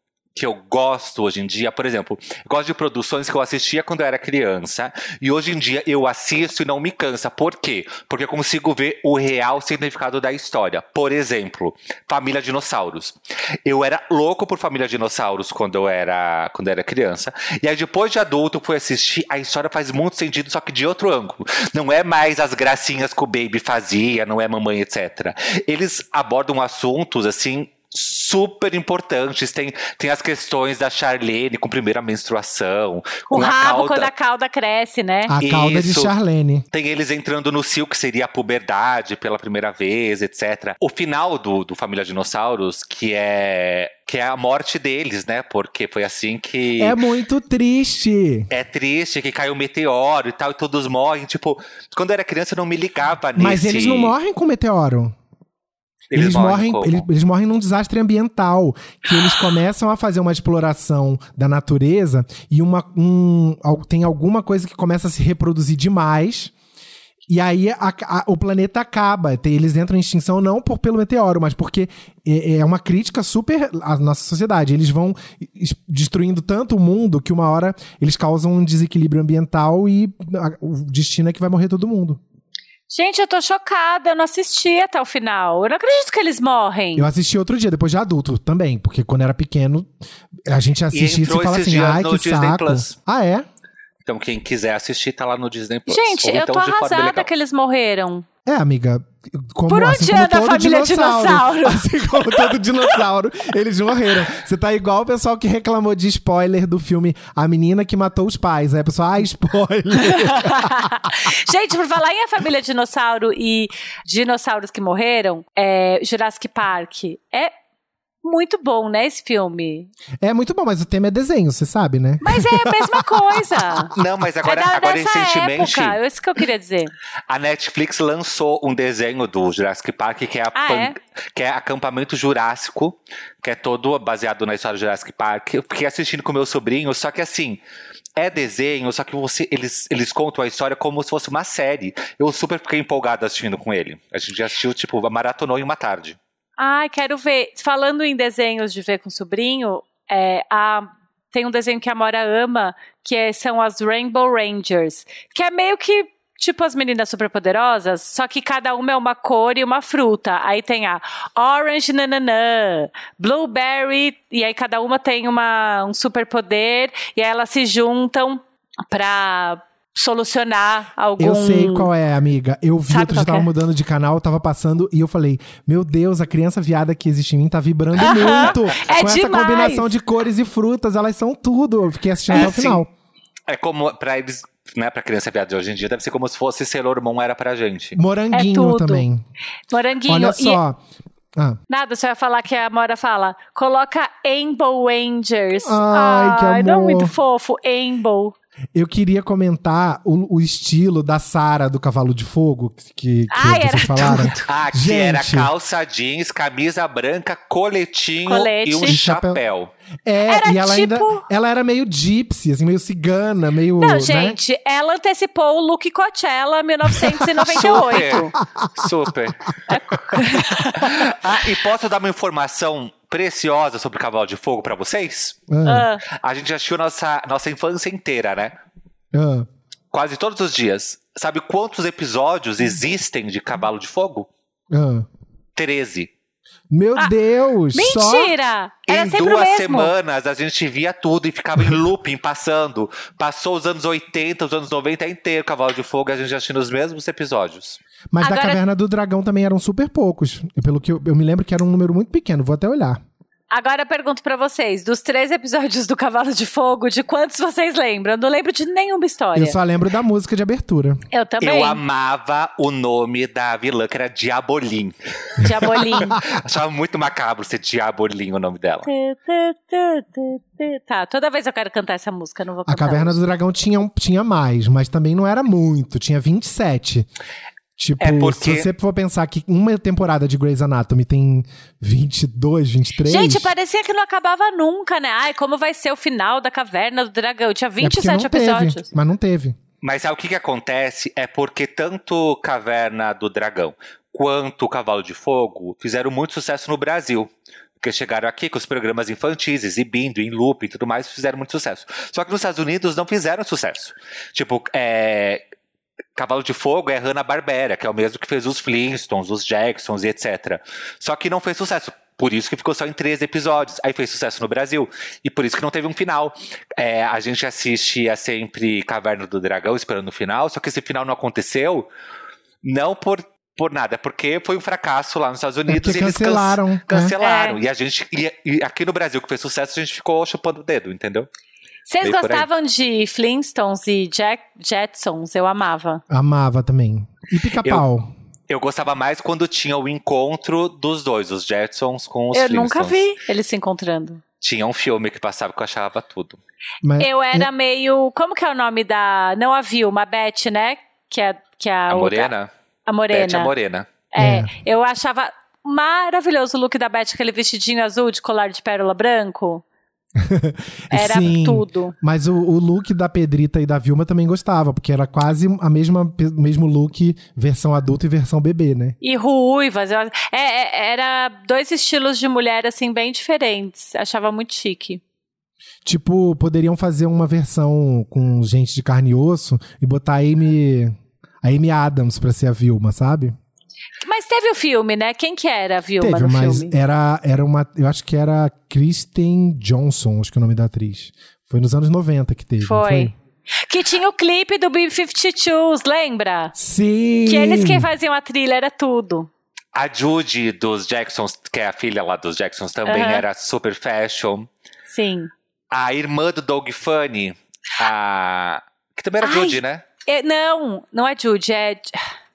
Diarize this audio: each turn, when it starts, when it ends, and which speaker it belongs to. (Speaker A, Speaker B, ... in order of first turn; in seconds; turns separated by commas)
Speaker A: 0.3-34.1, Speaker B: 33.3-35.3, Speaker C: 35.3-36.6, Speaker A: 35.4-36.1, Speaker A: 36.7-47.0, Speaker C: 46.8-48.5, Speaker A: 48.5-54.1, Speaker C: 53.4-55.1, Speaker A: 56.1-57.1, Speaker C: 56.1-66.5, Speaker C: 67.3-82.2, Speaker B: 82.9-87.1, Speaker C: 87.0-89.9, Speaker C: 90.5-93.5, Speaker A: 90.9-92.9, Speaker A: 94.0-97.3, Speaker B: 95.9-98.2, Speaker C: 98.5-110.9, Speaker B: 99.7-102.6, Speaker B: 110.0-117.5, Speaker B: 118.2-119.9, Speaker C: 120.2-123.1, Speaker B: 122.2-126.9, Speaker A: 123.9-126.0, Speaker A: 127.3-137.6, Speaker B: 130.5-130.9, Speaker A: 138.2-146.2, Speaker B: 146.6-171.9, Speaker C: 171.2-182.9, Speaker B: 172.9-173.5, Speaker B: 178.0-179.9, Speaker A: 182.3-182.8, Speaker A: 183.5-188.0, Speaker C: 187.9-189.2, Speaker B: 188.3-189.0, Speaker B: 189.7-190.6, Speaker C: 190.1-190.8, Speaker B: 191.7-198.3, Speaker C: 195.6-197.1, Speaker C: 198.7-205.5, Speaker B: 203.3-204.5, Speaker A: 204.4-209.7, Speaker B: 208.3-209.0, Speaker C: 208.9-209.4, Speaker C: 210.0-214.4, Speaker B: 210.3-211.2, Speaker B: 213.8-218.3, Speaker A: 217.5-220.2, Speaker C: 218.6-218.9, Speaker B: 219.7-220.9, Speaker A: 220.7-225.4, Speaker C: 225.5-225.9, Speaker B: 225.6-226.0, Speaker A: 226.1-228.6, Speaker C: 229.1-229.5, Speaker A: 229.9-234.3, Speaker C: 234.7-235.1, Speaker A: 235.6-236.1, Speaker C: 236.7-238.3, Speaker B: 237.7-239.9, Speaker A: 238.9-247.8, Speaker C: 248.1-253.0, Speaker B: 248.2-248.6, Speaker B: 253.5-259.6, Speaker C: 259.3-261.0, Speaker B: 261.1-261.8, Speaker A: 261.4-268.9, Speaker B: 265.4-266.2, Speaker B: 268.9-273.2, Speaker C: 272.7-277.1, Speaker C: 277.8-283.5, Speaker A: 278.0-278.7, Speaker B: 283.1-288.8, Speaker C: 287.8-289.6, Speaker A: 289.8-305.4, Speaker A: 306.1-321.9, Speaker A: 322.6-331.3, Speaker C: 325.7-327.1, Speaker B: 327.2-327.6, Speaker B: 331.9-336.0, Speaker A: 332.0-332.5, Speaker C: 336.1-338.1, Speaker A: 338.5-343.0, Speaker B: 342.3-344.2, Speaker A: 344.4-346.4, Speaker C: 346.8-347.5, Speaker B: 347.0-352.3, Speaker A: 351.9-352.5, Speaker B: 352.9-353.5, Speaker A: 353.1-353.9, Speaker B: 354.1-359.6, Speaker C: 354.2-354.5, Speaker C: 360.2-368.9, Speaker B: 360.9-361.9, Speaker B: 369.0-375.0, Speaker C: 375.8-383.4, Speaker B: 384.0-386.7, Speaker C: 386.0-393.1, Speaker B: 392.6-393.1, Speaker B: 393.7-396.5, Speaker C: 396.6-397.9, Speaker B: 397.3-399.3, Speaker A: 399.7-404.5, Speaker B: 402.9-403.2, Speaker B: 404.9-405.3, Speaker A: 405.7-409.8, Speaker B: 409.2-412.0